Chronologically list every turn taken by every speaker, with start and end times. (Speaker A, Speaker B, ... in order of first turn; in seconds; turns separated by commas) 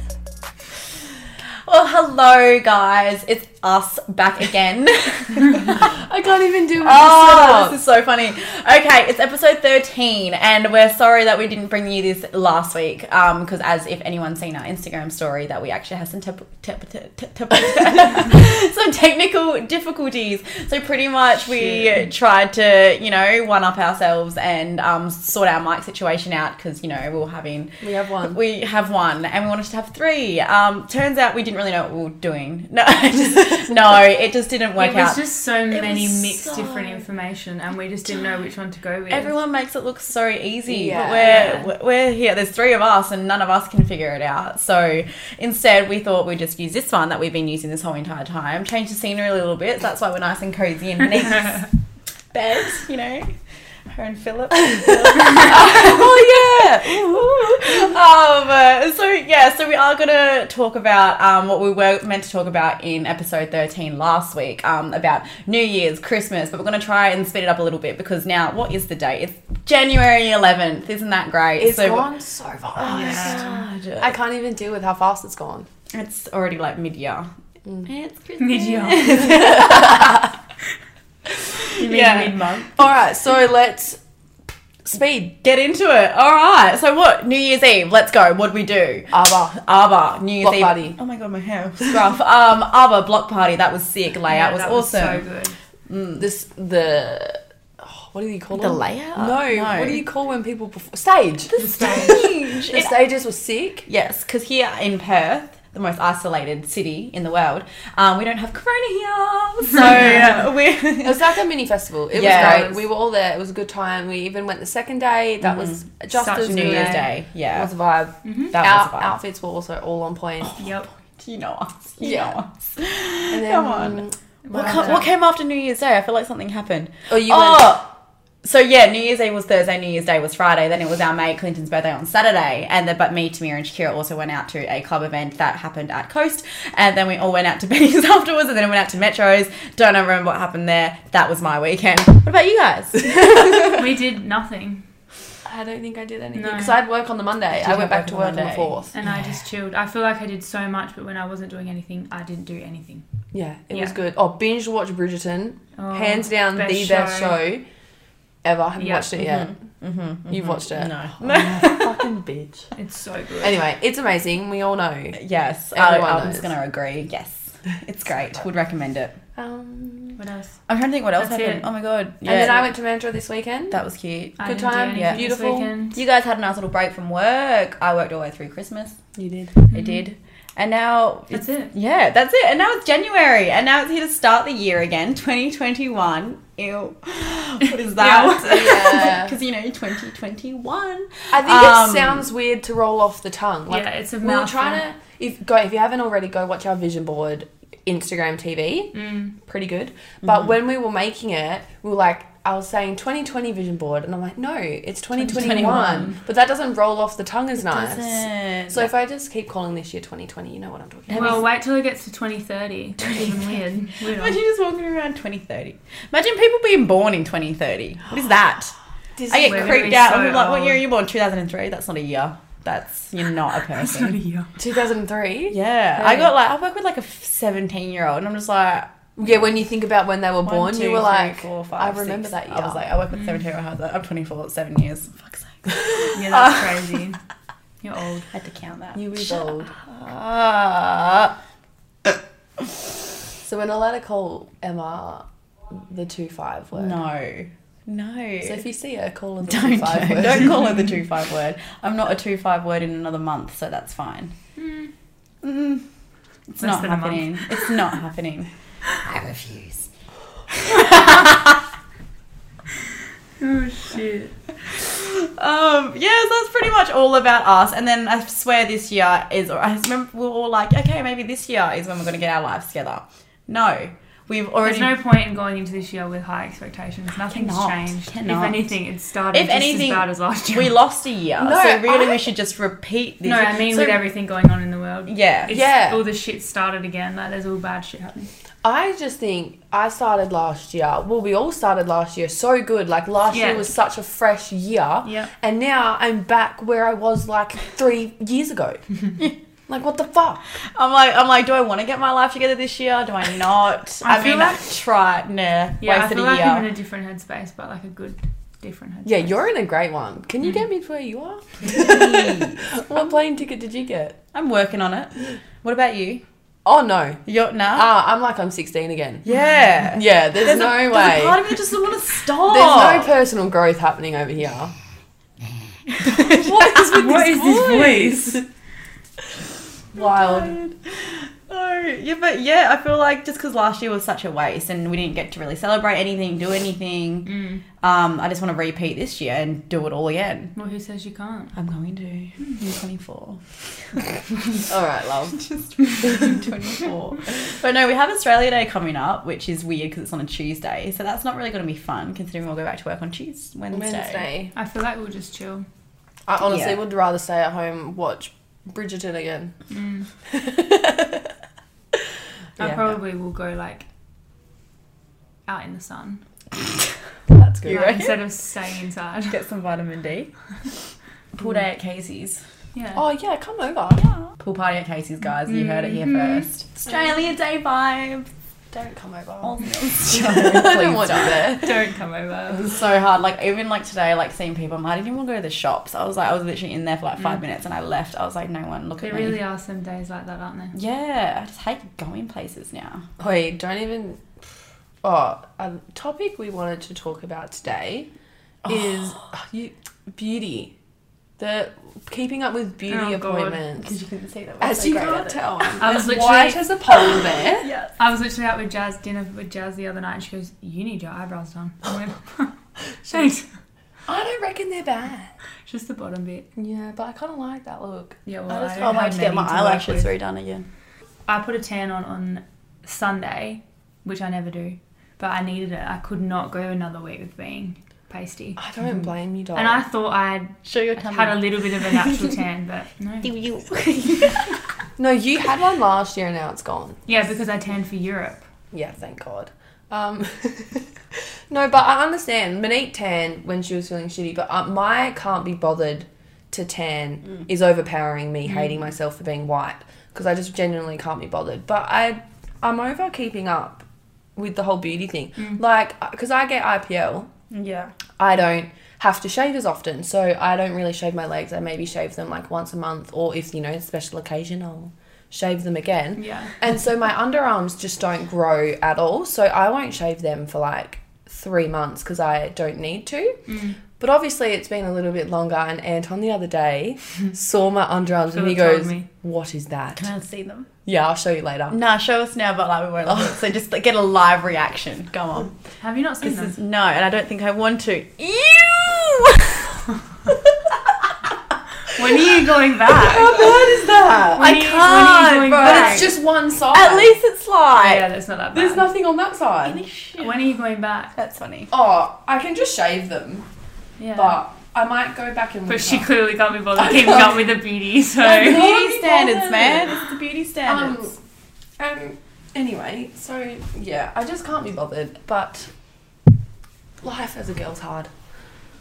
Speaker A: 1.6-6.0, Speaker B: 5.9-7.8, Speaker A: 6.8-37.0, Speaker B: 21.5-22.0, Speaker B: 27.8-28.4, Speaker C: 34.8-39.4, Speaker A: 39.1-51.7, Speaker B: 40.7-41.6, Speaker C: 40.9-41.7, Speaker A: 52.3-72.1, Speaker B: 55.2-57.9, Speaker B: 71.6-75.7, Speaker A: 72.8-74.1, Speaker C: 72.9-73.5, Speaker A: 75.9-77.3, Speaker A: 77.8-80.3, Speaker C: 78.4-79.7, Speaker B: 79.3-80.2, Speaker A: 81.6-82.7, Speaker C: 81.8-82.7, Speaker B: 82.8-84.0, Speaker B: 84.8-85.4, Speaker A: 85.4-95.2, Speaker B: 89.1-89.6, Speaker B: 90.4-91.0, Speaker B: 91.8-92.2, Speaker C: 94.3-95.6, Speaker A: 95.9-96.3, Speaker B: 96.2-103.9, Speaker A: 98.5-100.0, Speaker A: 101.5-102.9, Speaker C: 101.6-102.2, Speaker A: 103.9-111.3, Speaker B: 109.8-110.5, Speaker C: 109.9-110.4, Speaker B: 111.0-120.5, Speaker A: 112.1-112.8, Speaker C: 112.2-112.8, Speaker A: 115.4-115.8, Speaker C: 116.1-117.1, Speaker A: 116.4-117.7, Speaker C: 118.2-118.5, Speaker A: 118.5-119.2, Speaker A: 120.4-143.8, Speaker C: 120.6-120.9, Speaker B: 122.0-122.4, Speaker B: 123.3-125.1, Speaker C: 124.5-125.1, Speaker B: 127.1-127.8, Speaker C: 143.6-144.9, Speaker B: 145.4-149.0, Speaker C: 146.3-146.8, Speaker A: 147.6-148.7, Speaker C: 148.9-153.0, Speaker B: 153.3-157.6, Speaker C: 155.8-157.4, Speaker B: 158.4-159.5, Speaker C: 158.8-159.1, Speaker A: 159.2-162.1, Speaker B: 160.3-162.7, Speaker C: 162.7-163.6, Speaker B: 163.4-165.2, Speaker A: 165.2-169.2, Speaker B: 165.7-166.5, Speaker B: 169.4-170.2, Speaker C: 170.2-170.6, Speaker A: 170.7-172.7, Speaker C: 171.2-171.7, Speaker B: 172.2-173.8, Speaker A: 173.7-174.4, Speaker B: 174.4-175.7, Speaker C: 174.4-176.0, Speaker A: 174.9-175.2, Speaker A: 175.9-179.0, Speaker B: 179.2-179.6, Speaker C: 179.7-180.1, Speaker A: 179.7-192.3, Speaker C: 181.3-181.7, Speaker C: 188.0-188.3, Speaker B: 188.1-189.4, Speaker B: 191.3-211.4, Speaker C: 193.7-194.8, Speaker C: 198.9-199.3, Speaker C: 205.2-206.2, Speaker A: 205.2-206.1, Speaker A: 207.6-208.9, Speaker A: 211.1-211.5, Speaker C: 211.1-214.4, Speaker A: 214.0-218.7, Speaker B: 219.2-220.2, Speaker A: 219.3-224.2, Speaker C: 219.4-220.8, Speaker C: 223.8-224.5, Speaker B: 224.6-226.3, Speaker A: 225.5-229.3, Speaker B: 229.2-232.8, Speaker A: 230.4-237.0, Speaker C: 236.1-237.2, Speaker C: 237.8-238.3, Speaker A: 238.3-241.3, Speaker B: 238.9-239.7, Speaker B: 243.4-247.0, Speaker A: 246.8-248.6, Speaker B: 248.4-250.6, Speaker A: 249.5-254.3, Speaker C: 254.6-254.9, Speaker A: 255.4-255.8, Speaker A: 256.5-258.5, Speaker C: 256.6-257.7, Speaker A: 259.0-259.9, Speaker A: 260.6-261.6, Speaker C: 263.4-264.3, Speaker A: 264.6-274.9, Speaker C: 274.6-280.7, Speaker A: 277.3-278.7, Speaker A: 279.3-284.0, Speaker B: 281.4-282.3, Speaker C: 283.2-288.3, Speaker A: 285.1-285.5, Speaker B: 285.5-286.0, Speaker B: 288.6-298.8, Speaker C: 293.3-293.7, Speaker C: 295.0-295.3, Speaker B: 299.7-300.4, Speaker A: 300.8-306.7, Speaker C: 304.0-304.6, Speaker C: 305.8-309.4, Speaker B: 309.1-314.2, Speaker A: 311.7-312.7, Speaker A: 314.3-316.2, Speaker B: 316.6-317.2, Speaker A: 317.3-317.9, Speaker B: 317.7-319.3, Speaker A: 319.3-323.1, Speaker B: 319.9-321.4, Speaker B: 322.5-324.7, Speaker A: 326.0-326.9, Speaker B: 326.3-328.4, Speaker C: 326.8-328.4, Speaker B: 329.9-330.6, Speaker A: 330.0-337.3, Speaker C: 337.3-337.6, Speaker A: 337.8-340.5, Speaker C: 340.6-341.5, Speaker A: 341.6-344.1, Speaker B: 344.7-345.4, Speaker A: 345.3-354.3, Speaker B: 353.7-354.5, Speaker C: 354.5-355.7, Speaker B: 356.3-359.5, Speaker A: 356.4-356.8, Speaker C: 359.7-360.1, Speaker B: 360.3-361.3, Speaker C: 362.6-363.9, Speaker C: 365.5-366.2, Speaker B: 367.3-367.9, Speaker A: 367.6-368.2, Speaker C: 367.7-369.4, Speaker A: 369.3-370.3, Speaker A: 371.3-372.4, Speaker C: 372.8-373.0, Speaker B: 373.0-374.0, Speaker A: 374.4-378.3, Speaker C: 375.4-376.5, Speaker B: 378.7-381.8, Speaker A: 379.4-381.5, Speaker C: 381.5-382.7, Speaker A: 382.6-389.4, Speaker C: 389.0-390.8, Speaker A: 390.8-393.1, Speaker B: 393.2-394.2, Speaker B: 395.0-398.1, Speaker A: 398.6-399.1, Speaker B: 398.6-400.7, Speaker B: 401.4-403.9, Speaker C: 402.9-403.6, Speaker A: 403.8-405.9, Speaker B: 404.6-407.7, Speaker C: 405.8-406.7, Speaker A: 407.6-407.9, Speaker C: 408.0-412.6, Speaker C: 413.1-413.5, Speaker B: 414.1-415.3, Speaker C: 415.7-416.5, Speaker B: 416.6-418.2, Speaker C: 418.3-420.1, Speaker A: 418.5-420.7, Speaker C: 421.3-428.6, Speaker B: 428.6-429.8, Speaker C: 429.6-433.3, Speaker A: 430.6-432.4, Speaker A: 433.2-434.6, Speaker B: 435.0-437.0, Speaker C: 437.1-438.4, Speaker B: 438.7-457.3, Speaker C: 448.5-448.8, Speaker A: 457.5-457.9, Speaker B: 458.2-473.4, Speaker C: 466.2-466.6, Speaker C: 473.5-473.8, Speaker B: 474.0-480.1, Speaker C: 478.3-479.1, Speaker A: 480.0-480.7, Speaker B: 480.9-481.8, Speaker A: 481.7-485.6, Speaker C: 485.8-486.6, Speaker A: 486.2-489.8, Speaker A: 490.3-490.8, Speaker C: 491.9-493.4, Speaker A: 493.0-496.2, Speaker B: 493.2-494.3, Speaker C: 494.3-496.1, Speaker B: 495.6-497.2, Speaker A: 496.7-498.1, Speaker C: 497.7-498.9, Speaker B: 498.5-499.8, Speaker A: 499.6-500.5, Speaker C: 500.2-501.1, Speaker A: 501.2-501.7, Speaker B: 501.7-503.5, Speaker C: 504.0-504.4, Speaker B: 504.1-506.1, Speaker C: 505.7-508.7, Speaker B: 506.8-507.4, Speaker A: 508.2-511.1, Speaker B: 508.4-510.1, Speaker B: 510.7-511.2, Speaker B: 511.8-515.7, Speaker B: 517.0-518.1